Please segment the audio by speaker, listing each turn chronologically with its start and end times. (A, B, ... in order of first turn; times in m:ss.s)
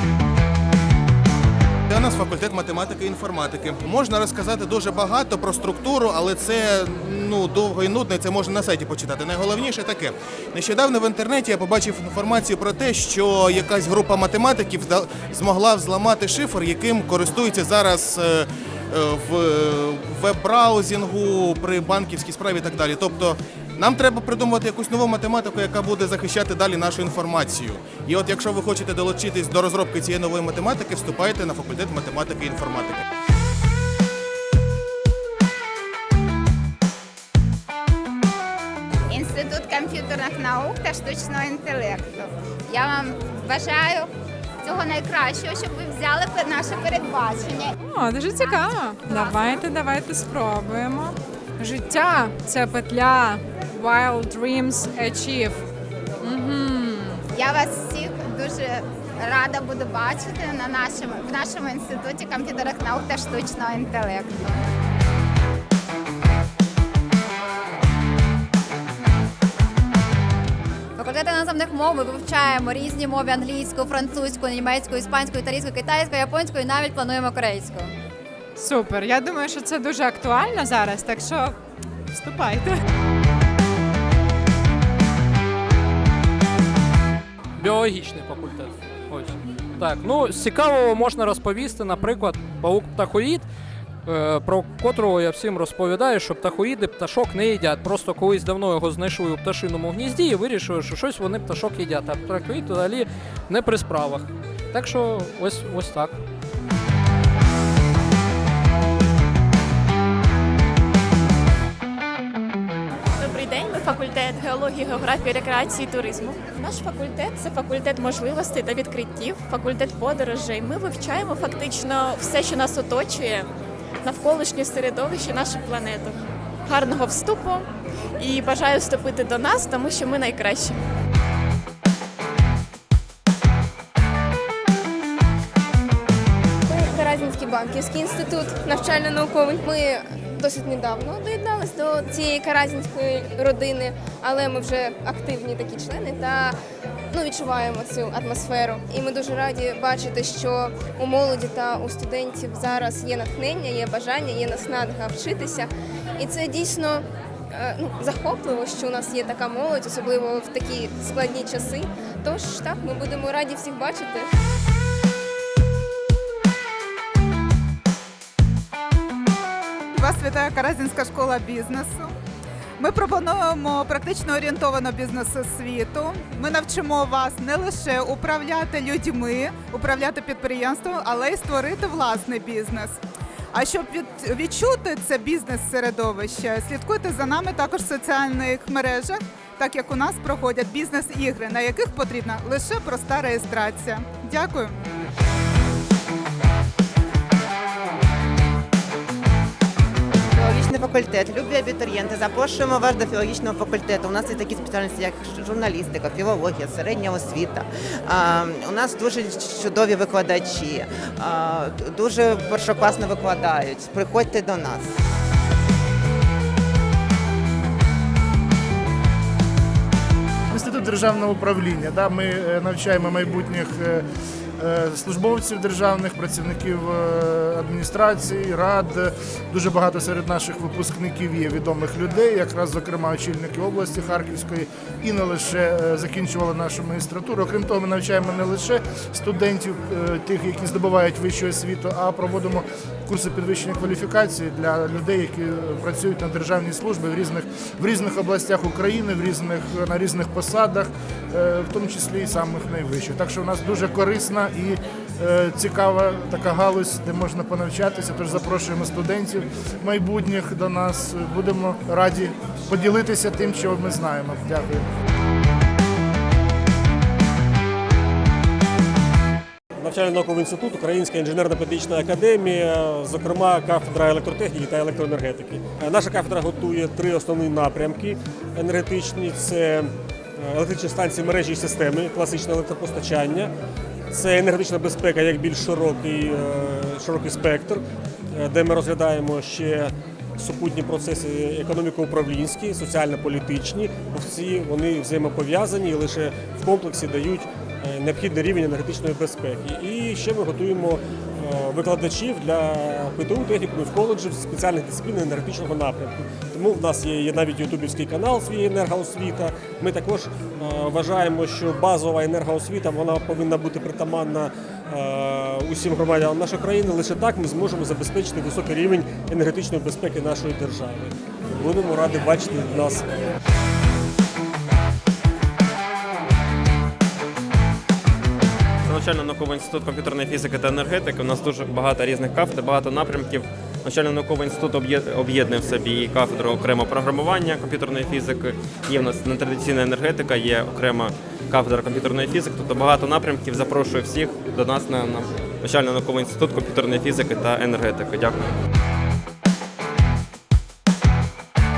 0:01.9-0:33.0 A
0:39.1-0:44.1 B
0:44.6-0:47.8 B
0:47.8-0:55.6 C
0:48.4-0:49.6 B
0:56.2-0:57.2 C
0:57.3-1:04.6 B
1:11.0-1:17.9 D
1:18.6-1:21.5 C
1:22.1-1:22.8 C
1:27.6-1:33.4 E
1:34.1-1:46.2 E
1:53.2-2:03.5 F
2:04.0-2:07.6 F
2:08.2-2:10.8 F
2:16.7-2:26.6 G
2:27.1-2:44.3 G
2:49.9-2:52.1 H
2:52.8-3:03.0 H
3:03.5-3:14.8 H
3:20.4-3:34.9 I
3:40.5-3:44.0 J
3:44.6-4:24.9 J
4:29.8-4:43.5 K
4:44.1-4:47.8 K
4:48.3-5:23.0 K
5:28.9-5:48.4 L